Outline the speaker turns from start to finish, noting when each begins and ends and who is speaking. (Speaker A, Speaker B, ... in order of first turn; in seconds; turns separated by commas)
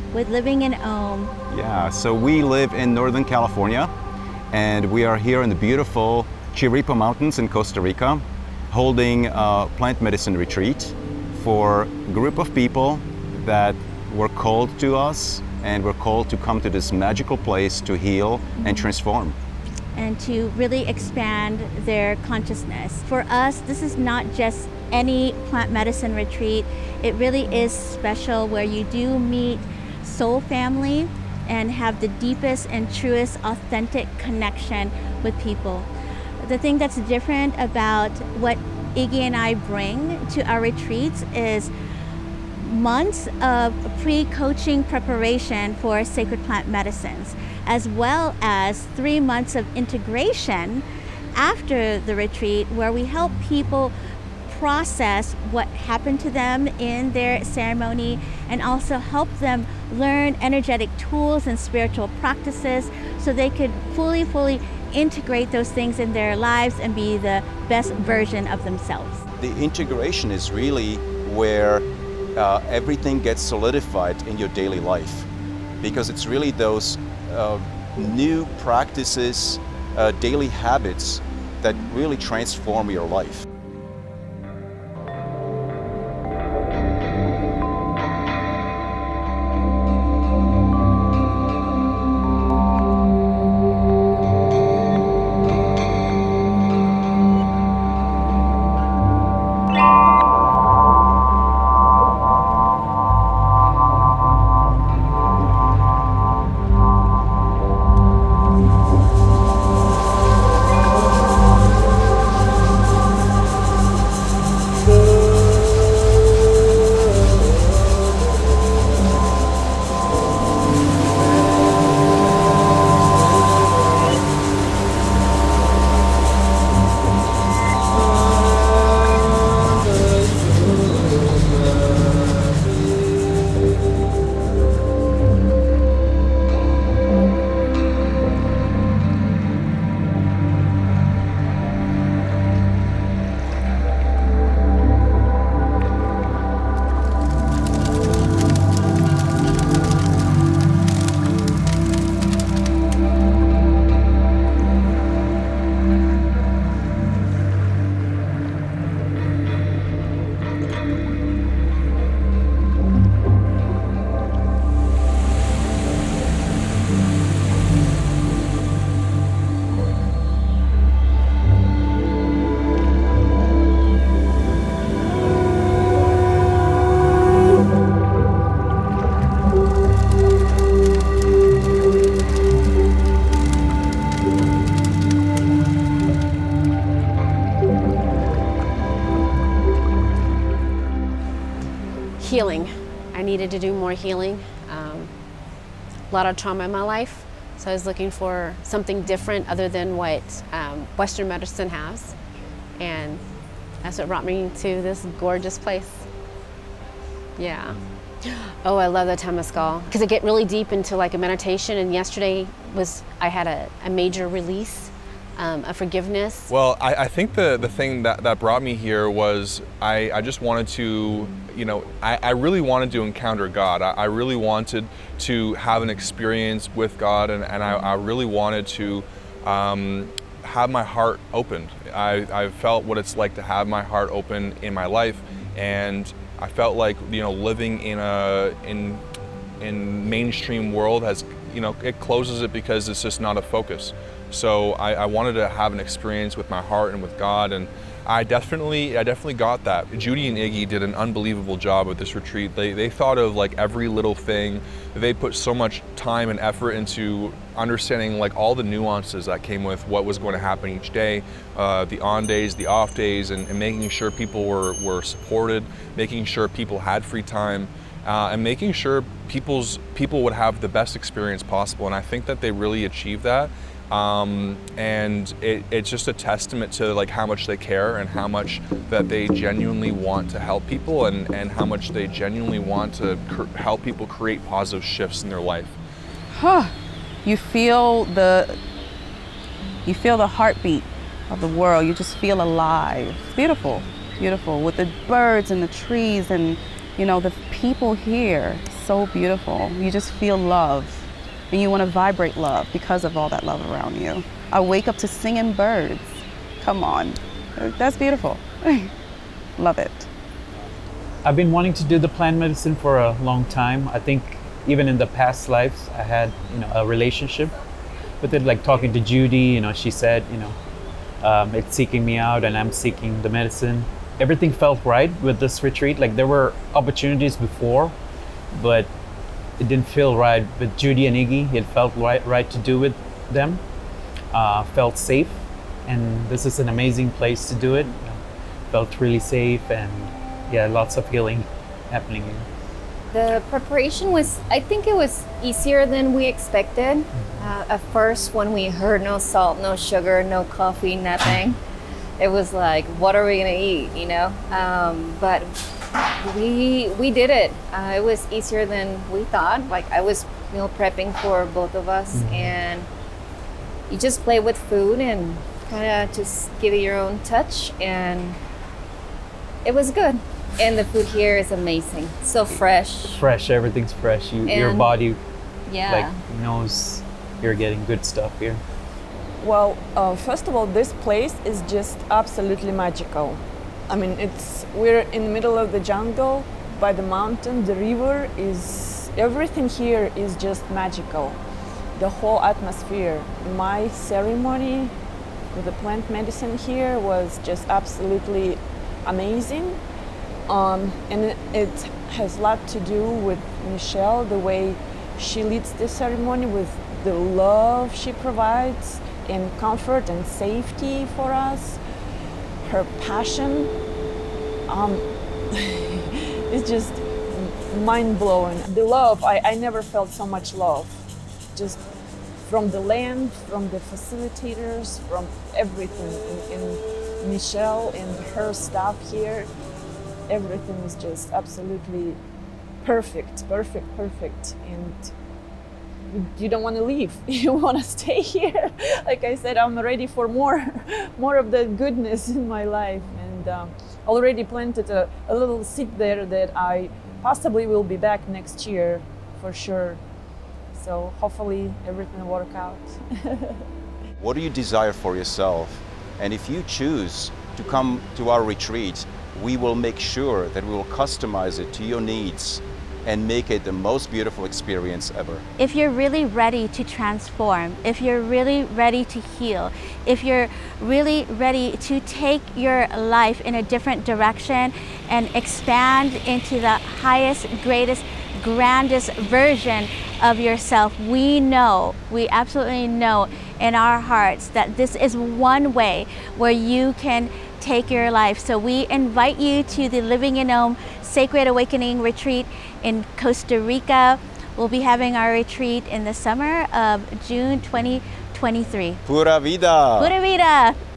Speaker A: 0.1-1.3, Speaker B: 1.5-3.9, Speaker B: 4.5-19.4, Speaker A: 19.9-35.9, Speaker A: 36.4-41.7, Speaker A: 42.5-53.9, Speaker A: 54.5-69.2, Speaker B: 69.4-75.3, Speaker B: 75.8-83.4, Speaker C: 192.2-195.1, Speaker C: 196.1-202.1, Speaker C: 202.8-203.2, Speaker C: 203.8-206.1, Speaker C: 207.4-216.5, Speaker D: 216.5-239.0, Speaker D: 239.6-285.8, Speaker E: 286.3-286.7, Speaker E: 287.2-288.6, Speaker E: 289.8-308.9, Speaker E: 309.6-310.1, Speaker F: 311.2-317.5, Speaker F: 318.2-320.6, Speaker F: 321.2-327.9, Speaker F: 328.5-328.9, Speaker F: 329.6-333.6, Speaker F: 334.3-338.2, Speaker F: 338.7-342.4, Speaker G: 343.1-351.6, Speaker G: 352.2-355.5, Speaker G: 356.2-362.9, Speaker F: 362.1-362.6, Speaker G: 363.9-368.4, Speaker G: 369.6-373.2, Speaker F: 372.5-375.2, Speaker G: 374.4-374.9, Speaker G: 375.7-376.1, Speaker F: 375.9-378.6, Speaker H: 379.4-391.4, Speaker H: 391.9-394.9, Speaker H: 395.5-399.8, Speaker H: 400.5-411.8, Speaker H: 412.6-413.7, Speaker H: 414.7-421.0, Speaker H: 422.4-429.5, Speaker H: 430.3-432.2, Speaker H: 432.8-435.1, Speaker H: 436.1-450.0, Speaker H: 450.7-453.6, Speaker B: 454.2-465.4, Speaker A: 465.6-499.0, Speaker B: 499.1-500.1, Speaker A: 500.0-500.8